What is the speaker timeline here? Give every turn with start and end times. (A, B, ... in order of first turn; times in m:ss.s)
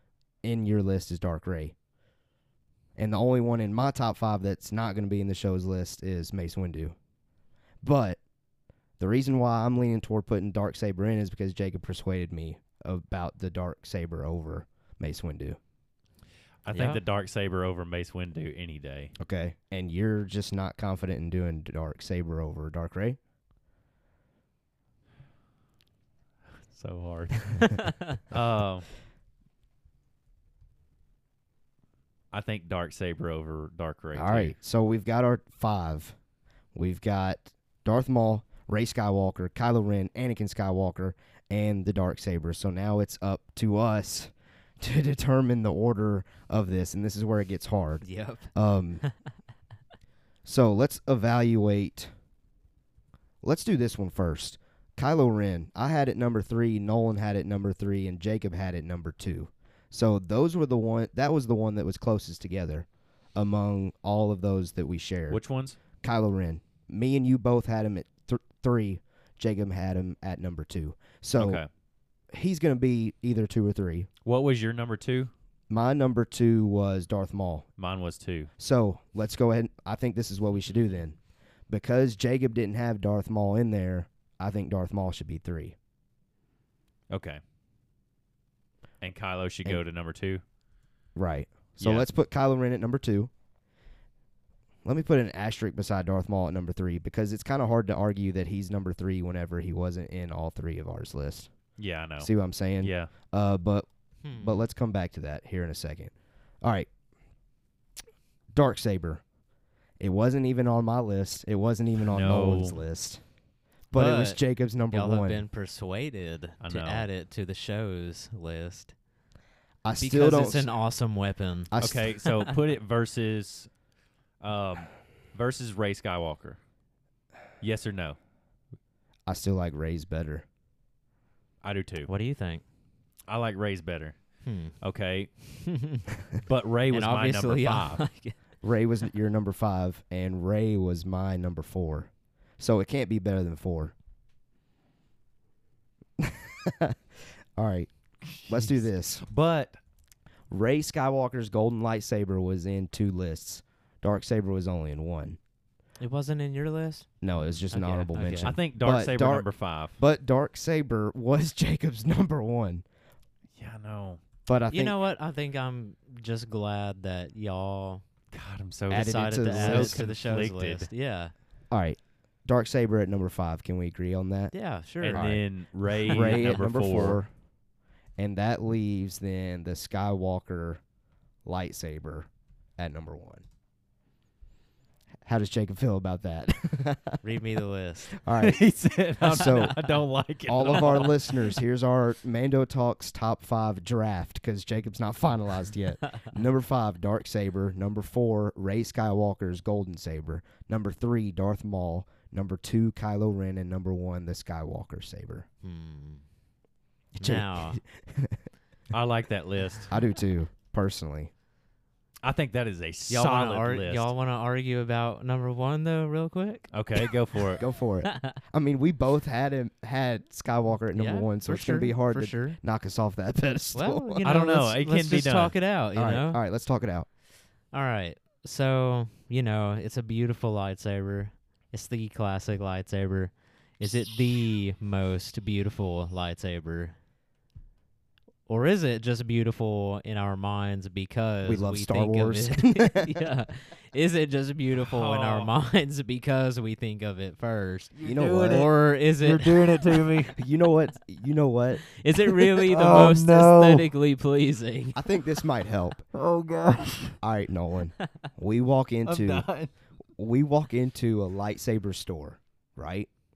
0:00.4-0:01.8 A
0:03.0-0:07.0 A
0:07.8-0:08.2 A
0:09.0-0:15.6 A
0:16.6-0:19.1 B
0:16.7-0:17.0 C
0:19.2-0:23.2 A
0:26.7-0:28.9 B
0:27.6-0:28.1 C
0:32.3-0:34.6 B
0:34.2-0:36.2 A
0:36.7-0:49.0 A
0:48.0-0:48.5 C
0:50.4-0:52.1 A
0:53.4-1:05.4 A
1:05.3-1:05.8 B
1:06.0-1:11.6 A
1:11.4-1:11.7 B
1:12.3-1:14.1 A
1:14.2-1:15.3 B
1:15.7-1:17.6 A
1:17.8-1:18.5 B
1:18.6-1:21.2 A
1:21.7-1:25.8 A
1:27.1-1:27.4 B
1:29.0-1:30.4 B
1:31.2-1:33.3 A
1:31.8-1:32.1 B
1:34.8-1:41.5 A
1:41.8-1:42.3 B
1:42.2-1:46.9 A
1:42.8-1:43.1 B
1:44.2-1:44.6 C
1:48.5-1:49.2 A
1:50.0-1:53.2 A
1:52.1-1:52.8 B
1:53.9-1:55.4 A
1:53.9-1:58.9 C
1:56.6-1:57.1 B
1:59.8-2:00.7 A
2:00.0-2:02.4 C
2:01.7-2:02.1 A
2:01.8-2:03.7 B
2:04.4-2:06.6 B
2:07.6-2:08.2 B
2:09.3-2:10.4 A
2:11.6-2:12.1 B
2:12.1-2:12.6 C
2:13.3-2:14.2 B
2:14.4-2:14.8 C
2:14.8-2:15.3 B
2:15.5-2:16.1 C
2:16.4-2:18.0 B
2:16.9-2:18.4 C
2:18.6-2:23.9 A
2:26.2-2:27.0 A
2:27.6-2:27.9 A
2:28.3-2:29.8 B
2:28.5-2:29.2 A
2:30.5-2:35.4 A
2:36.0-2:37.1 C
2:37.2-2:42.8 A
2:37.7-2:38.6 C
2:38.4-2:40.0 B
2:43.6-2:44.2 B
2:44.5-2:45.0 A
2:44.7-2:48.0 C
2:48.3-2:50.9 B
2:48.9-2:50.0 A
2:48.9-2:51.3 C
2:51.7-2:54.5 A
2:54.5-2:55.4 C
2:55.0-2:57.2 B
2:55.1-2:55.4 A
2:56.0-2:57.3 A
2:56.1-2:56.6 C
2:58.2-3:00.8 A
3:01.4-3:03.4 A
3:05.2-3:07.2 A
3:07.2-3:08.2 C
3:08.1-3:08.6 A
3:08.4-3:11.5 B
3:09.2-3:09.8 A
3:09.3-3:09.7 C
3:10.5-3:25.5 A
3:25.6-3:26.2 C
3:27.2-3:27.8 C
3:27.2-3:28.4 A
3:28.9-3:29.9 B
3:29.9-3:31.3 A
3:32.2-3:34.1 B
3:33.1-3:37.0 C
3:36.7-3:37.6 B
3:37.6-3:44.2 A
3:38.0-3:38.4 C
3:40.9-3:42.6 C
3:43.7-3:46.4 C
3:44.2-3:45.6 B
3:46.0-3:47.1 A
3:47.7-3:57.0 C
3:58.5-4:09.8 C
4:01.4-4:03.2 A
4:04.8-4:05.5 B
4:08.0-4:10.4 B
4:08.0-4:08.7 A
4:10.4-4:11.8 A
4:11.9-4:15.0 C
4:12.5-4:13.9 B
4:12.7-4:13.2 A
4:15.0-4:16.0 A
4:16.1-4:17.2 B
4:17.2-4:19.5 A
4:19.0-4:19.7 B
4:20.2-4:23.1 A